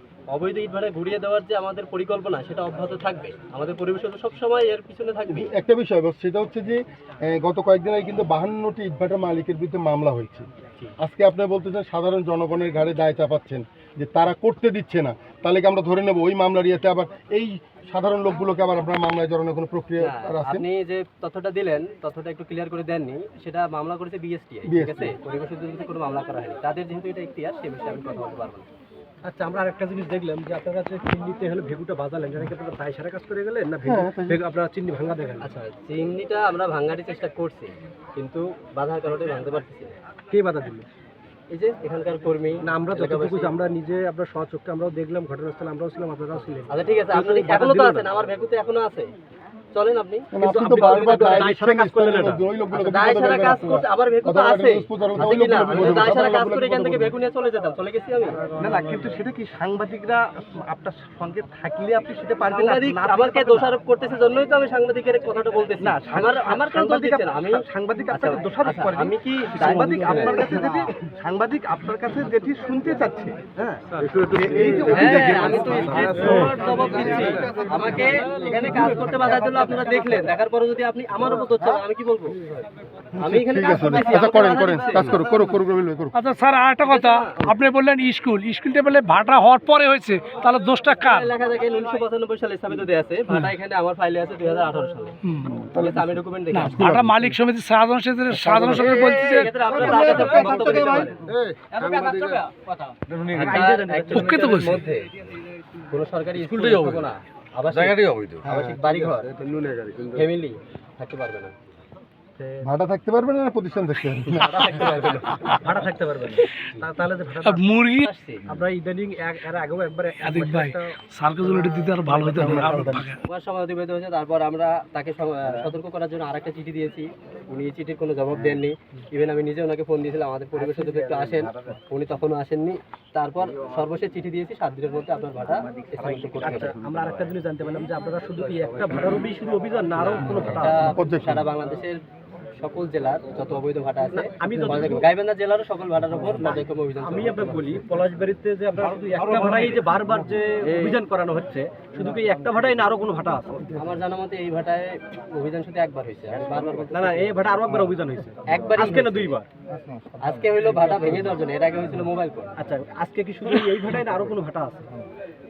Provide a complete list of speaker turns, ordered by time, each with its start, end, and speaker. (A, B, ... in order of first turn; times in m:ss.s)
0:00.3-0:05.5 A
0:05.3-0:10.5 B
0:11.0-0:20.7 B
0:20.0-0:28.7 A
0:24.7-0:25.2 B
0:29.2-0:35.5 C
0:33.8-0:34.4 B
0:35.4-0:39.9 A
0:40.3-0:40.9 C
0:41.5-0:43.6 A
0:42.6-0:48.1 C
0:46.7-0:49.1 A
0:49.7-0:51.5 A
0:50.3-0:57.1 B
0:50.4-0:52.4 C
0:52.8-0:58.4 A
0:58.6-1:03.7 D
1:02.5-1:10.9 A
1:05.8-1:16.5 D
1:13.9-1:18.1 C
1:14.9-1:22.6 A
1:23.2-1:26.2 B
1:23.2-1:25.5 A
1:26.1-1:31.3 E
1:26.8-1:27.6 A
1:31.0-1:35.2 A
1:35.2-1:35.5 E
1:35.4-1:36.1 B
1:35.8-1:36.8 A
1:36.5-1:39.5 E
1:36.7-1:37.4 B
1:38.3-1:41.1 B
1:38.7-1:41.3 A
1:39.9-1:40.7 C
1:41.3-1:42.4 C
1:41.8-1:45.1 A
1:43.1-1:44.5 C
1:44.1-1:44.8 E
1:45.9-1:49.3 A
1:46.4-1:47.1 C
1:47.8-1:48.5 C
1:48.4-1:48.8 B
1:49.2-1:50.1 C
1:50.1-1:51.6 A
1:52.4-1:52.7 C
1:52.6-1:54.6 B
1:54.3-1:55.9 A
1:55.6-1:57.6 C
1:57.4-1:58.1 E
1:58.0-1:58.4 A
1:58.5-2:02.4 C
2:00.2-2:03.2 E
2:02.1-2:03.1 B
2:03.2-2:16.8 A
2:16.0-2:21.0 C
2:20.0-2:22.0 A
2:20.2-2:21.4 B
2:22.6-2:27.8 A
2:24.1-2:25.1 C
2:26.4-2:33.7 C
2:33.7-2:37.7 A
2:36.9-2:40.2 C
2:38.5-2:39.4 A
2:40.2-2:42.5 A
2:42.6-2:44.8 C